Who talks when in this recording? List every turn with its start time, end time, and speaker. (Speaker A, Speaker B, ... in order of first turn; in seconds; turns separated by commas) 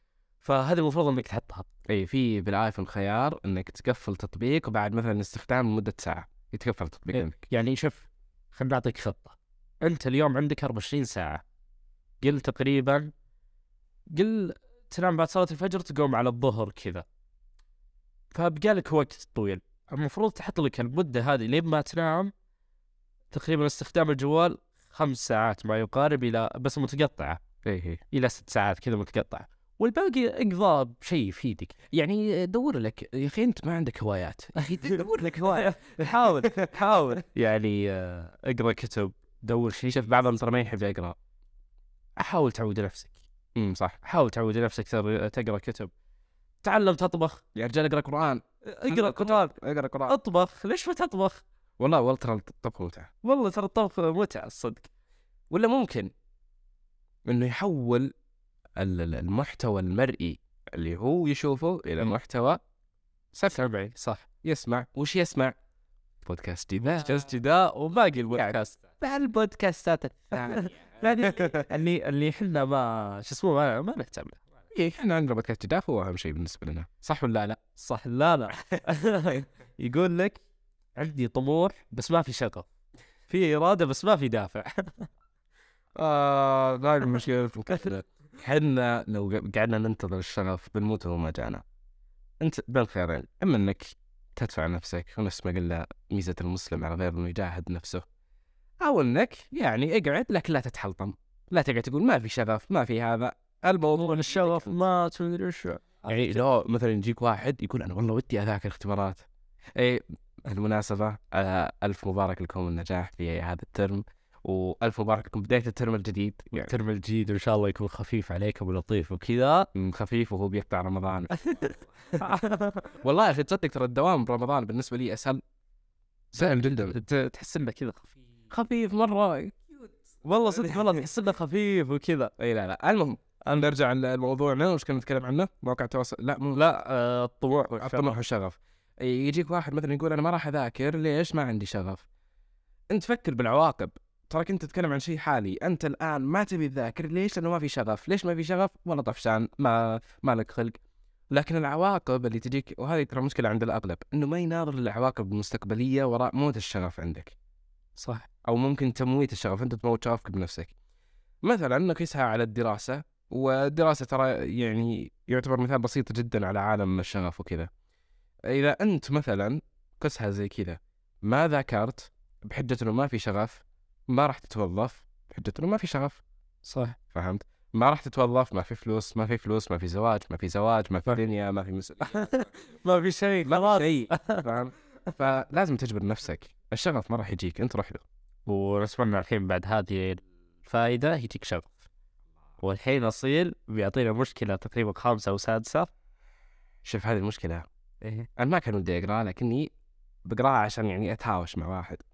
Speaker A: 0.4-1.7, Speaker B: 1.9-7.4, Speaker A: 7.1-11.4, Speaker A: 12.2-13.1, Speaker A: 14.1-17.1, Speaker A: 18.3-22.3, Speaker A: 23.3-27.4, Speaker B: 27.6-28.0, Speaker A: 28.1-31.7, Speaker B: 31.9-36.8, Speaker A: 34.6-40.1, Speaker B: 39.9-41.2, Speaker A: 42.2-43.1, Speaker B: 43.5-44.0, Speaker A: 44.0-45.9, Speaker A: 46.6-47.4, Speaker B: 47.5-50.2, Speaker A: 48.6-49.5, Speaker A: 50.1-51.4, Speaker B: 51.8-53.1, Speaker A: 53.2-54.9, Speaker B: 55.5-56.1, Speaker B: 57.3-58.1, Speaker B: 58.8-62.6, Speaker A: 63.5-64.3, Speaker B: 64.4-65.5, Speaker B: 66.2-67.4, Speaker A: 66.8-68.8, Speaker B: 68.3-71.7, Speaker A: 70.3-74.4, Speaker B: 74.7-77.6, Speaker A: 77.8-80.4, Speaker A: 81.0-82.7, Speaker A: 83.3-85.1, Speaker B: 86.0-91.6, Speaker B: 92.4-98.0, Speaker B: 98.8-104.7, Speaker A: 104.0-106.4, Speaker B: 106.1-109.2, Speaker B: 109.8-116.7, Speaker A: 116.6-119.7, Speaker B: 119.7-122.2, Speaker A: 121.4-123.0, Speaker B: 123.0-125.4, Speaker B: 126.3-127.0, Speaker A: 126.3-128.1, Speaker B: 128.5-129.8, Speaker A: 130.2-132.3, Speaker B: 130.6-131.0, Speaker B: 132.4-136.6, Speaker A: 133.4-133.7, Speaker A: 136.6-138.2, Speaker B: 137.8-142.1, Speaker B: 142.9-150.8, Speaker B: 151.3-157.3, Speaker A: 158.0-158.3, Speaker B: 158.4-160.7, Speaker B: 161.4-167.7, Speaker B: 168.5-176.2, Speaker A: 176.6-177.0, Speaker B: 177.1-182.5, Speaker A: 182.1-184.5, Speaker B: 183.5-188.0, Speaker A: 188.5-191.8, Speaker A: 192.6-195.9, Speaker B: 196.8-197.7, Speaker A: 198.0-198.3, Speaker B: 198.4-199.7, Speaker B: 200.2-202.0